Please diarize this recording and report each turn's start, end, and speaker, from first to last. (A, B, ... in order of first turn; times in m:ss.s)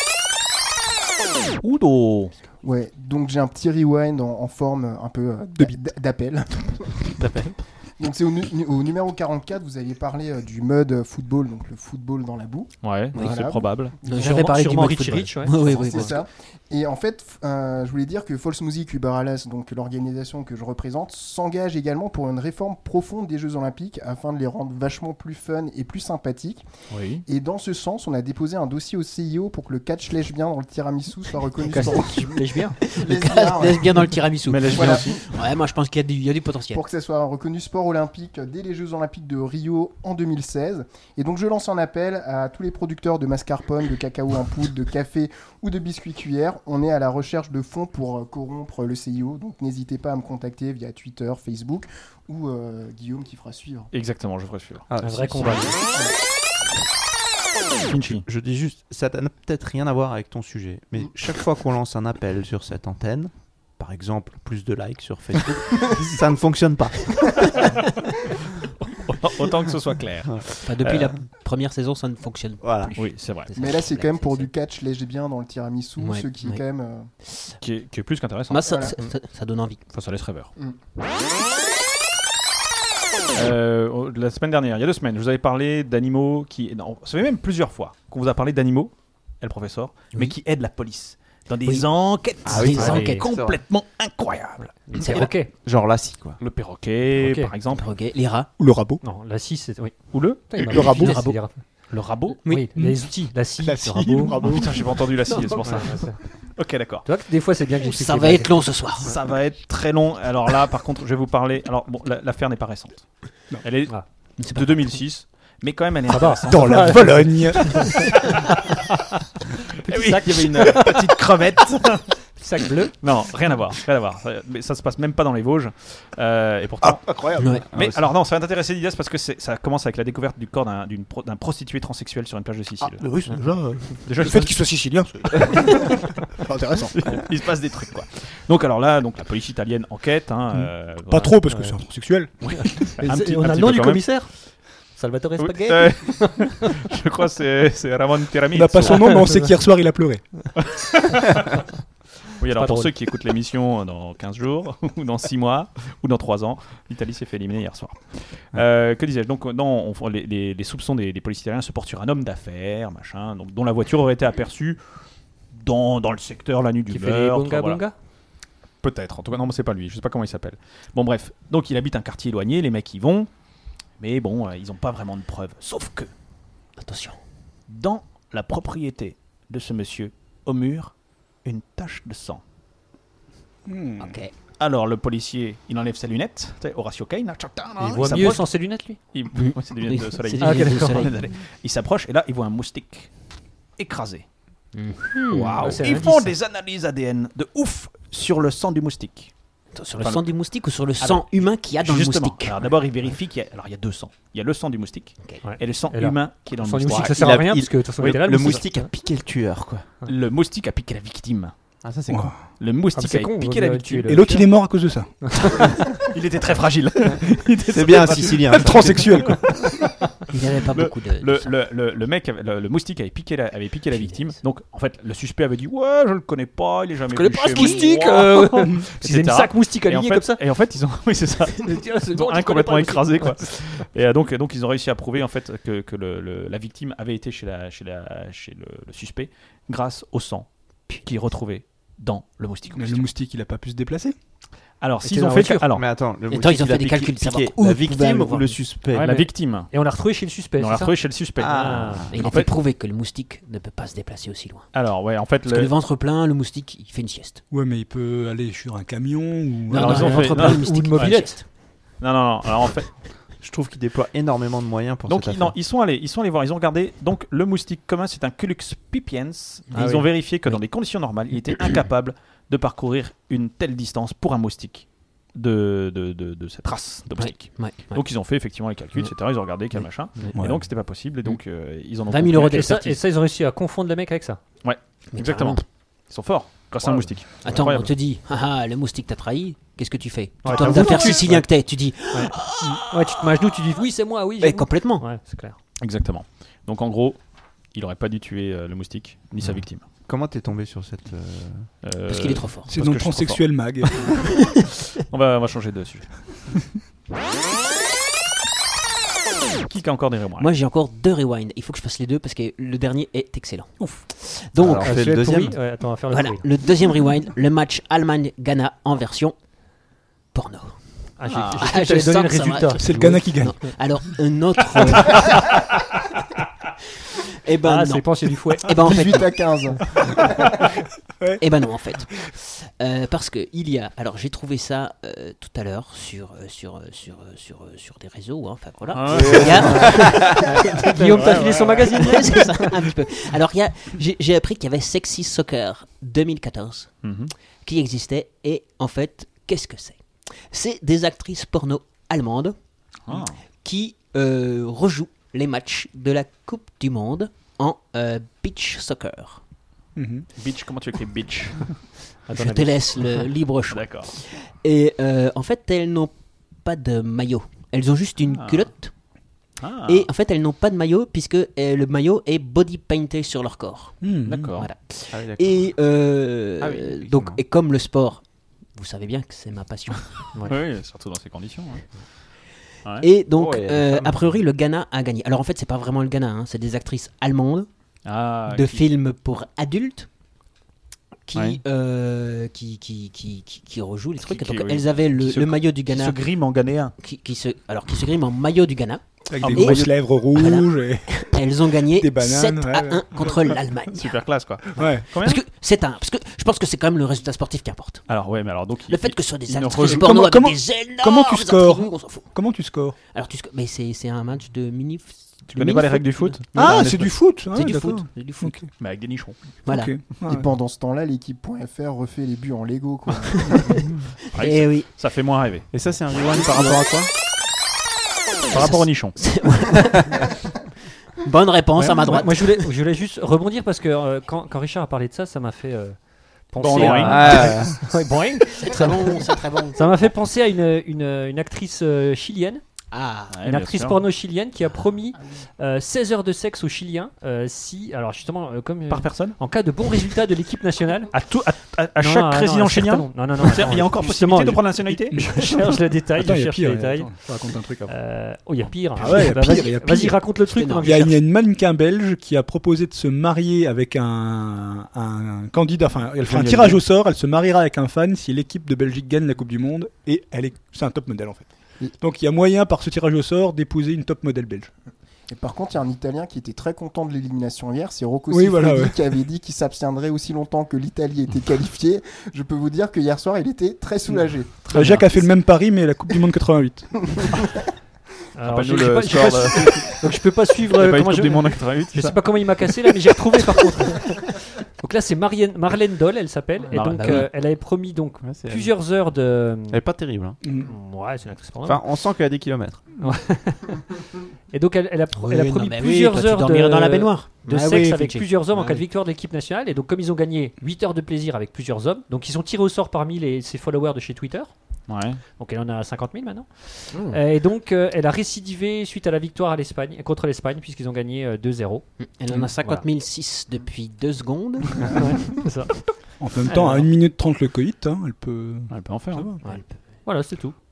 0:01.6-0:02.3 A
0:02.6-0:07.1 B
0:07.2-0:07.6 A
0:08.0-0:14.3 B
0:12.8-0:14.0 A
0:13.1-0:16.2 C
0:14.0-0:16.2 D
0:15.5-0:26.6 B
0:26.9-0:27.2 A
0:27.2-0:34.2 B
0:31.6-0:32.8 D
0:32.8-0:36.8 C
0:34.4-0:35.3 A
0:34.7-0:35.2 B
0:36.7-0:53.9 B
0:53.9-0:54.9 A
0:54.9-0:55.8 E
0:55.0-0:55.8 D
0:57.9-0:58.2 A
0:58.1-1:07.2 E
1:08.8-1:11.1 A
1:10.6-1:14.5 C
1:12.6-1:12.9 E
1:13.0-1:13.5 A
1:13.5-1:17.1 B
1:16.0-1:16.6 C
1:17.6-1:18.8 A
1:18.5-1:19.8 C
1:18.6-1:18.9 B
1:19.9-1:20.5 A
1:23.3-1:35.0 A
1:32.4-1:33.2 C
1:32.4-1:33.6 E
1:32.8-1:33.2 D
1:34.8-1:35.5 D
1:35.0-1:35.3 C
1:35.1-1:36.4 E
1:36.4-1:37.9 A
1:37.1-1:37.5 D
1:37.7-1:38.5 C
1:38.6-1:39.0 F
1:39.0-1:41.6 D
1:40.1-1:41.3 A
1:40.6-1:41.3 F
1:41.9-1:42.4 A
1:42.3-1:44.6 D
1:42.7-1:44.9 F
1:44.4-1:47.1 A
1:45.3-1:46.2 D
1:47.0-1:48.8 D
1:47.8-1:49.1 C
1:49.0-1:57.6 A
1:54.4-1:54.9 C
1:56.1-1:58.3 D
1:56.5-1:58.1 F
1:58.2-1:58.5 A
1:59.8-2:01.1 D
1:59.9-2:02.2 A
2:02.4-2:02.9 D
2:03.0-2:13.2 A
2:06.8-2:07.6 F
2:07.4-2:07.6 C
2:07.7-2:08.0 E
2:12.8-2:17.1 F
2:14.0-2:14.9 A
2:15.5-2:15.8 A
2:16.9-2:21.4 A
2:20.5-2:23.1 F
2:21.4-2:21.8 D
2:22.4-2:24.5 A
2:22.4-2:26.6 D
2:25.4-2:29.3 A
2:28.5-2:30.2 F
2:28.8-2:29.5 D
2:30.6-2:31.5 A
2:32.4-2:44.8 A
2:32.5-2:32.9 D
2:45.5-2:47.8 A
2:46.9-2:47.9 D
2:48.8-2:53.3 A
2:54.0-2:56.1 A
2:56.8-2:57.2 C
2:57.7-3:02.4 A
3:03.6-3:04.2 F
3:04.0-3:04.3 C
3:04.6-3:13.1 A
3:07.8-3:09.0 D
3:09.3-3:11.2 C
3:10.4-3:11.2 D
3:13.8-3:14.2 A
3:14.7-3:15.7 C
3:15.3-3:19.3 A
3:15.6-3:16.4 D
3:19.7-3:22.7 C
3:20.0-3:20.3 A
3:21.0-3:27.4 A
3:25.4-3:28.9 D
3:27.0-3:29.9 E
3:30.0-3:31.7 A
3:31.8-3:32.5 E
3:32.1-3:32.3 F
3:32.4-3:34.4 A
3:32.9-3:35.7 D
3:34.0-3:35.2 F
3:35.8-3:39.9 A
3:37.7-3:39.2 E
3:38.5-3:39.7 F
3:40.3-3:41.5 C
3:40.7-4:03.0 A
3:43.9-3:44.4 C
3:47.1-3:50.4 D
3:47.5-3:47.9 C
3:51.5-3:53.8 D
4:02.7-4:04.2 F
4:04.8-4:05.8 A
4:05.0-4:05.6 D
4:05.7-4:09.1 E
4:06.3-4:08.6 C
4:08.9-4:12.1 D
4:09.0-4:09.8 A
4:10.6-4:12.5 A
4:11.4-4:12.1 E
4:12.1-4:14.8 C
4:14.7-4:15.7 A
4:15.4-4:17.4 C
4:17.5-4:20.3 F
4:19.7-4:21.5 C
4:19.7-4:21.4 D
4:19.8-4:21.3 A
4:22.0-4:23.0 A
4:23.4-4:25.6 E
4:25.1-4:43.0 A
4:29.7-4:30.1 D
4:37.2-4:38.0 C
4:39.7-4:40.3 C
4:40.3-4:40.7 F
4:42.1-4:42.9 C
4:42.3-4:44.4 D
4:44.6-4:47.9 A
4:45.1-4:45.6 C
4:47.4-4:52.9 C
4:50.4-4:55.6 D
4:50.5-4:51.3 A
4:54.4-4:55.1 C
4:55.8-4:57.2 A
4:57.7-4:59.9 A
5:00.0-5:01.7 E
5:01.8-5:06.5 A
5:02.1-5:02.7 C
5:02.7-5:04.1 F
5:09.6-5:10.5 A
5:10.4-5:15.1 C
5:13.8-5:14.0 A
5:14.5-5:15.6 E
5:14.7-5:16.5 D
5:16.1-5:19.4 C
5:20.3-5:25.4 C
5:21.2-5:23.5 D
5:21.3-5:21.7 A
5:22.8-5:23.9 F
5:27.4-5:29.4 C
5:27.6-5:28.8 D
5:28.8-5:30.2 B
5:31.2-5:32.0 F
5:31.4-5:47.1 C
5:38.9-5:39.9 A
5:39.1-5:40.3 E
5:40.6-5:42.7 D
5:41.1-5:41.9 A
5:47.0-5:47.3 A
5:47.6-5:52.6 C
5:53.0-5:53.4 A
5:53.1-5:59.4 C
5:59.9-6:00.3 F
6:00.3-6:01.9 A
6:02.2-6:03.3 D
6:02.3-6:09.0 C
6:03.7-6:04.1 A
6:08.3-6:08.7 A
6:09.6-6:10.1 A
6:09.8-6:20.2 C
6:14.0-6:14.5 F
6:14.2-6:14.7 A
6:15.1-6:15.8 E
6:16.6-6:17.4 E
6:20.4-6:22.0 A
6:23.0-6:27.7 C
6:23.3-6:24.3 E
6:28.0-6:28.9 A
6:28.5-6:30.1 C
6:31.3-6:36.3 C
6:31.3-6:31.6 A
6:34.2-6:36.9 A
6:37.0-6:44.2 C
6:39.3-6:43.6 F
6:39.4-6:39.9 A
6:43.9-6:45.4 A
6:44.8-6:45.0 F
6:45.1-6:48.2 C
6:48.1-6:50.2 A
6:48.9-6:52.4 C
6:49.8-6:53.0 F
6:53.0-6:58.8 C
6:55.5-6:57.2 A
6:56.5-6:58.7 F
6:58.8-6:59.4 A
6:59.6-6:59.9 C
6:59.6-7:00.5 F
7:00.2-7:03.8 B
7:03.5-7:03.8 C
7:04.3-7:06.7 A
7:04.4-7:04.9 C
7:05.7-7:07.1 E
7:06.4-7:06.8 C
7:08.5-7:09.2 A
7:08.5-7:10.3 C
7:11.2-7:12.6 C
7:11.8-7:22.6 D
7:16.6-7:17.6 A
7:16.7-7:17.8 E
7:18.6-7:20.1 C
7:22.9-7:23.4 C
7:23.3-7:24.0 A
7:23.4-7:31.2 D
7:28.9-7:29.4 A
7:31.1-7:35.2 A
7:32.0-7:37.2 D
7:35.1-7:37.9 F
7:37.3-7:37.9 A
7:37.9-7:41.2 D
7:39.0-7:54.7 F
7:40.5-7:41.1 C
7:46.2-7:46.8 A
7:55.3-8:04.6 B
7:58.3-7:59.0 F
8:04.6-8:05.3 A
8:04.7-8:07.3 F
8:08.3-8:19.8 D
8:08.4-8:10.0 A
8:10.7-8:12.9 A
8:16.7-8:17.2 C
8:17.0-8:20.4 E
8:20.4-8:20.7 F
8:20.5-8:22.0 D
8:21.6-8:22.9 E
8:23.0-8:23.9 D
8:24.5-8:42.8 D
8:25.1-8:28.7 C
8:34.9-8:35.2 A
8:42.0-8:45.1 C
8:44.8-8:45.9 D
8:46.2-8:49.4 F
8:46.5-8:46.8 D
8:48.7-8:49.4 A
8:49.4-8:50.5 D